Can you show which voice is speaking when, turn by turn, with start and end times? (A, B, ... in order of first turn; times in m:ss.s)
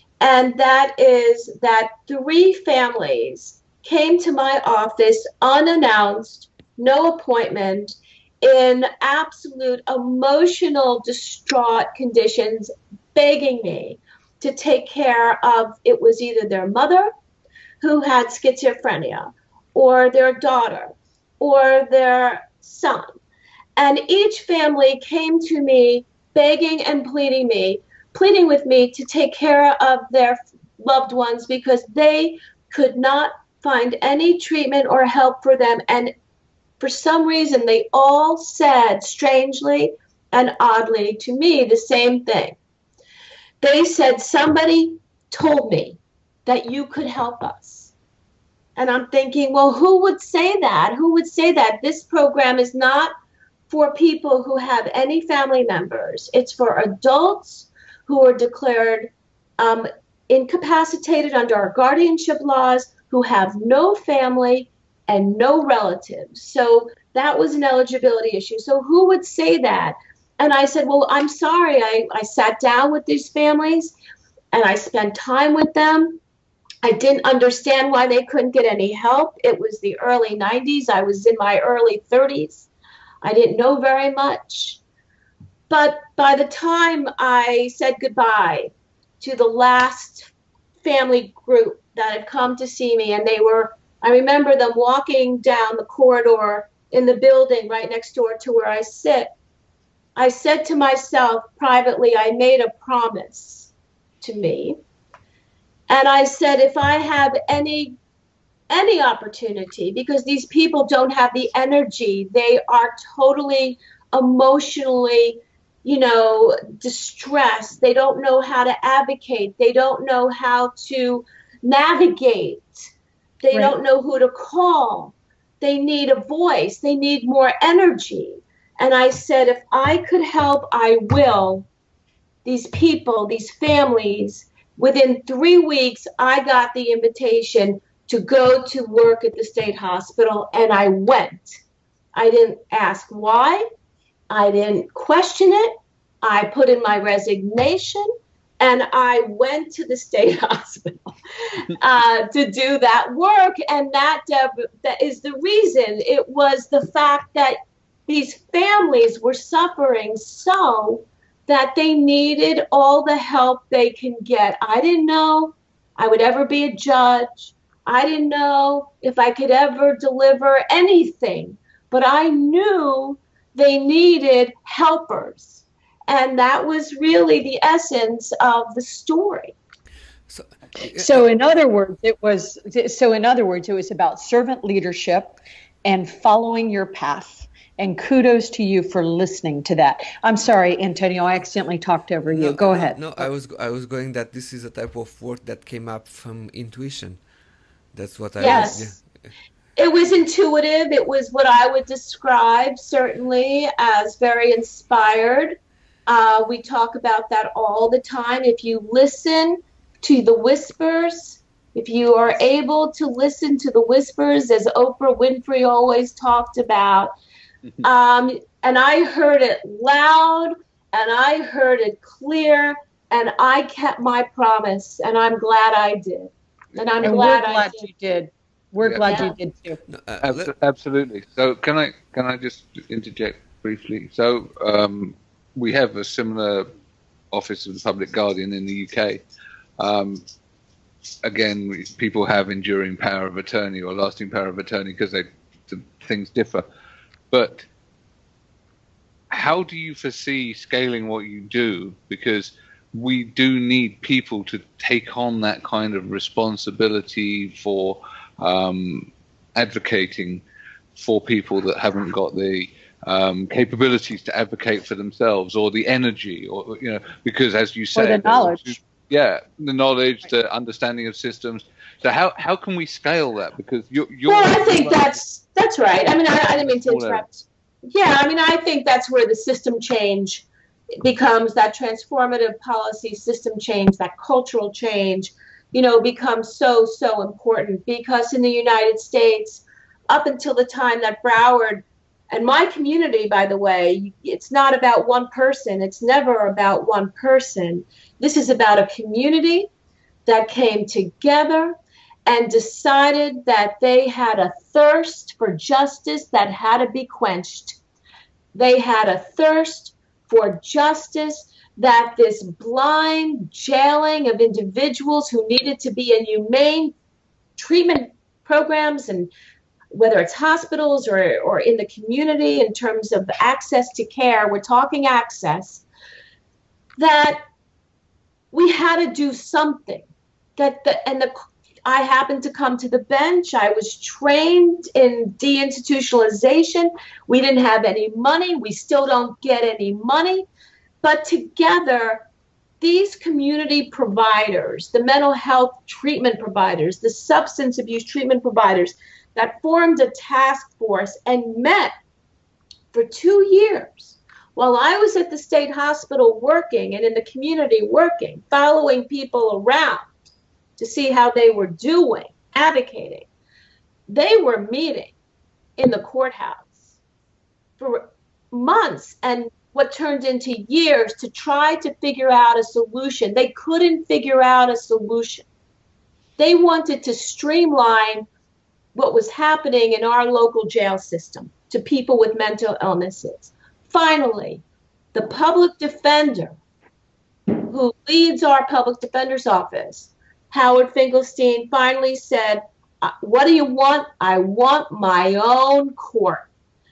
0:00.2-0:17.1 A
0:17.8-0:23.2 A
0:23.8-0:36.1 A
0:36.8-0:42.6 A
0:43.6-0:47.9 A
0:48.8-0:53.1 A
0:53.7-1:13.9 A
1:14.5-1:16.2 A
1:16.8-1:22.7 A
1:23.2-1:24.8 A
1:25.7-1:30.3 A
1:30.8-1:39.3 A
1:40.2-1:43.7 A
1:44.2-1:44.8 A
1:45.9-1:47.9 A
1:48.7-2:02.9 A
2:03.4-2:11.7 A
2:12.4-2:21.5 A
2:22.2-2:23.6 A
2:24.3-2:59.6 A
3:00.3-3:01.2 B
3:01.0-3:13.3 C
3:12.3-3:17.2 B
3:17.9-3:19.1 B
3:18.4-3:19.0 A
3:18.4-3:18.8 C
3:19.8-3:25.6 A
3:26.1-3:37.1 A
3:37.8-3:47.9 A
3:47.0-3:49.8 C
3:48.8-3:49.3 D
3:49.0-3:49.4 A
3:49.9-3:50.5 B
3:50.2-3:56.7 D
3:57.3-3:59.2 D
3:59.8-4:00.2 D
4:01.2-4:06.6 D
4:07.3-4:07.7 D
4:09.3-4:20.4 D
4:21.0-4:35.1 D
4:28.0-4:28.8 C
4:34.3-4:40.4 A
4:36.6-4:37.2 D
4:41.0-4:59.7 A
5:00.3-5:07.8 A
5:08.5-5:17.0 A
5:17.6-5:19.3 A
5:19.9-5:25.8 A
5:27.0-5:27.4 A
5:28.5-5:40.5 A
5:41.0-5:42.2 A
5:42.8-5:51.9 A
5:52.9-6:03.3 A
6:04.1-6:05.1 A
6:05.8-6:06.8 A
6:07.8-6:15.5 A
6:16.4-6:18.3 A
6:18.9-6:24.6 A
6:25.1-6:26.6 A
6:27.6-6:36.5 A